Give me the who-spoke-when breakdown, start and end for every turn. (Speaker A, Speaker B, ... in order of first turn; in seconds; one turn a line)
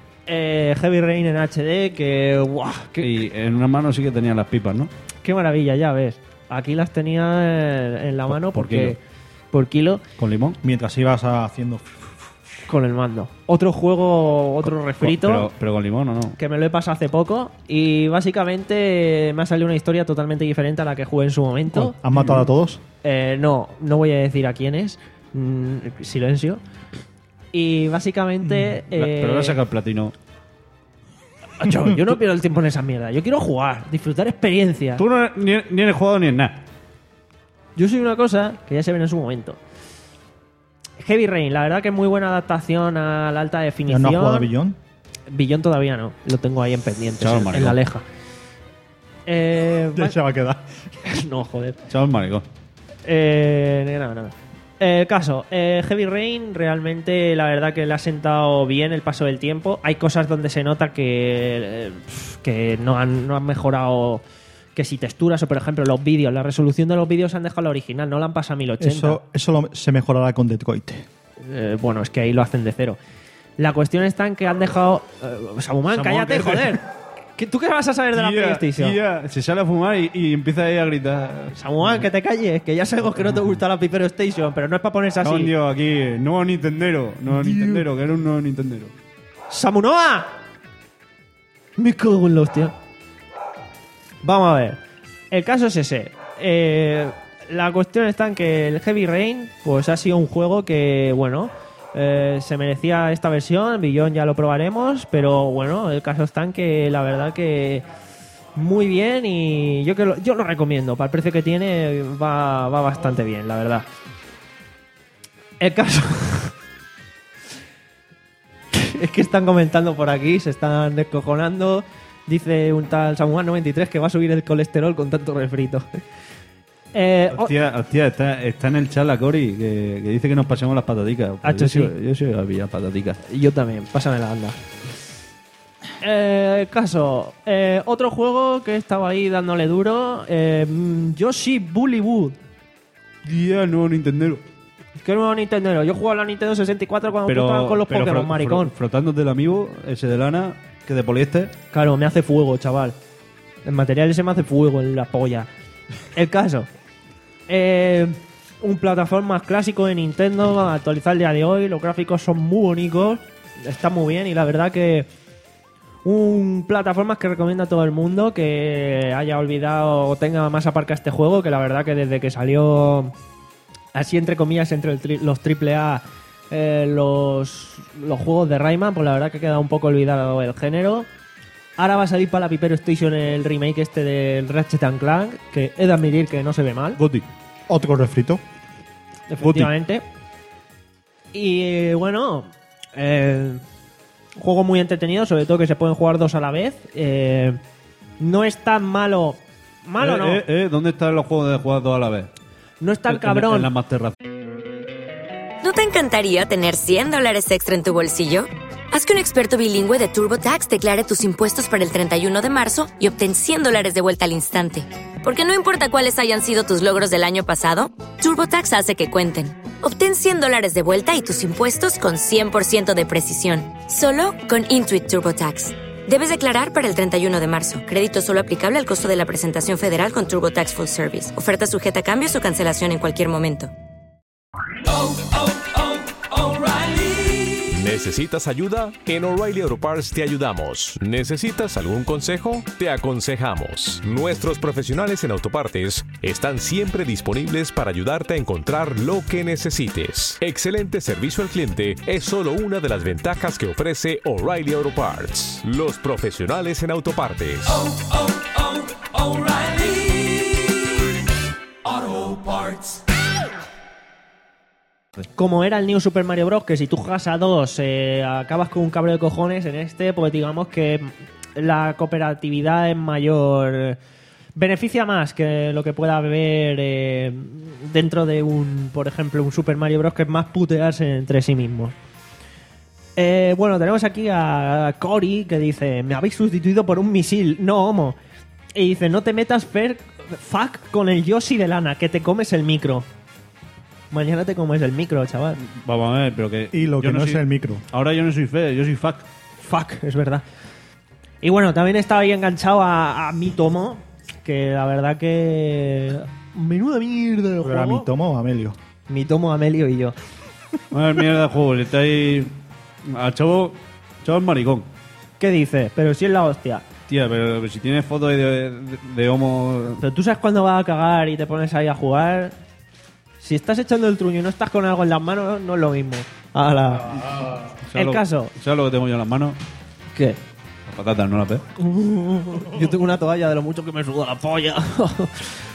Speaker A: 0.3-3.1
Speaker B: 3.0-4.9
Speaker A: 5.2-9.0
Speaker B: 8.3-9.0
Speaker A: 9.5-10.0
Speaker B: 10.2-10.6
Speaker C: 10.6-11.8
Speaker A: 12.7-15.5
Speaker B: 15.0-16.4
Speaker A: 16.4-22.0
Speaker C: 21.7-22.8
Speaker B: 22.2-22.4
Speaker A: 23.0-26.6
Speaker A: 27.5-29.6
Speaker B: 28.6-30.1
Speaker A: 31.6-35.0
Speaker B: 35.0-36.6
Speaker A: 37.8-39.6
Speaker A: 41.0-44.5
Speaker C: 43.9-44.8
Speaker A: 45.3-48.0
Speaker B: 47.2-47.8
Speaker A: 49.3-50.2
Speaker C: 50.0-50.7
Speaker A: 51.0-51.8
Speaker B: 51.9-52.5
Speaker A: 53.0-64.2
Speaker A: 64.8-69.2
Speaker C: 68.8-71.1
Speaker A: 71.4-73.0
Speaker A: 73.6-76.9
Speaker B: 75.9-76.8
Speaker A: 77.4-79.0
Speaker B: 78.2-82.1
Speaker A: 81.5-85.5
Speaker B: 85.2-88.9
Speaker A: 87.3-87.8
Speaker A: 89.5-90.3
Speaker A: 91.8-92.7
Speaker A: 94.2-94.8
Speaker A: 95.3-107.8
Speaker A: 108.6-113.9
Speaker A: 115.6-116.5
Speaker A: 118.7-126.0
Speaker A: 126.9-127.5
Speaker B: 127.3-133.2
Speaker A: 131.4-131.9
Speaker A: 133.3-134.6
Speaker A: 136.0-142.4
Speaker B: 143.2-144.4
Speaker A: 145.0-148.7
Speaker B: 147.3-151.6
Speaker A: 151.7-153.0
Speaker A: 153.7-155.5
Speaker A: 156.2-156.7
Speaker A: 157.5-165.1
Speaker A: 166.1-173.1
Speaker A: 173.9-181.1
Speaker A: 181.8-187.0
Speaker B: 187.0-187.3
Speaker C: 187.7-188.4
Speaker A: 189.3-190.0
Speaker B: 189.4-189.7
Speaker A: 191.3-193.6
Speaker A: 194.4-197.6
Speaker A: 198.2-200.4
Speaker B: 200.0-202.3
Speaker A: 202.8-203.7
Speaker B: 203.1-204.2
Speaker D: 205.6-233.7
Speaker E: 235.1-258.4
Speaker E: 259.0-260.2
Speaker E: 261.9-262.8
Speaker A: 265.4-274.0
Speaker A: 274.6-281.9
Speaker A: 283.2-288.2
Speaker A: 288.8-293.1
Speaker A: 294.1-295.6
Speaker B: 295.6-299.3
Speaker C: 296.7-297.8
Speaker A: 299.6-300.4
Speaker A: 301.4-308.1
Speaker C: 307.6-308.8
Speaker A: 309.1-310.2
Speaker B: 310.9-312.5
Speaker B: 313.1-314.9
Speaker A: 315.4-316.9
Speaker B: 317.1-320.0
Speaker A: 320.0-322.6
Speaker A: 323.4-327.3
Speaker B: 327.9-329.6
Speaker A: 327.9-328.5
Speaker A: 330.1-330.4
Speaker B: 330.9-331.6
Speaker A: 331.8-335.6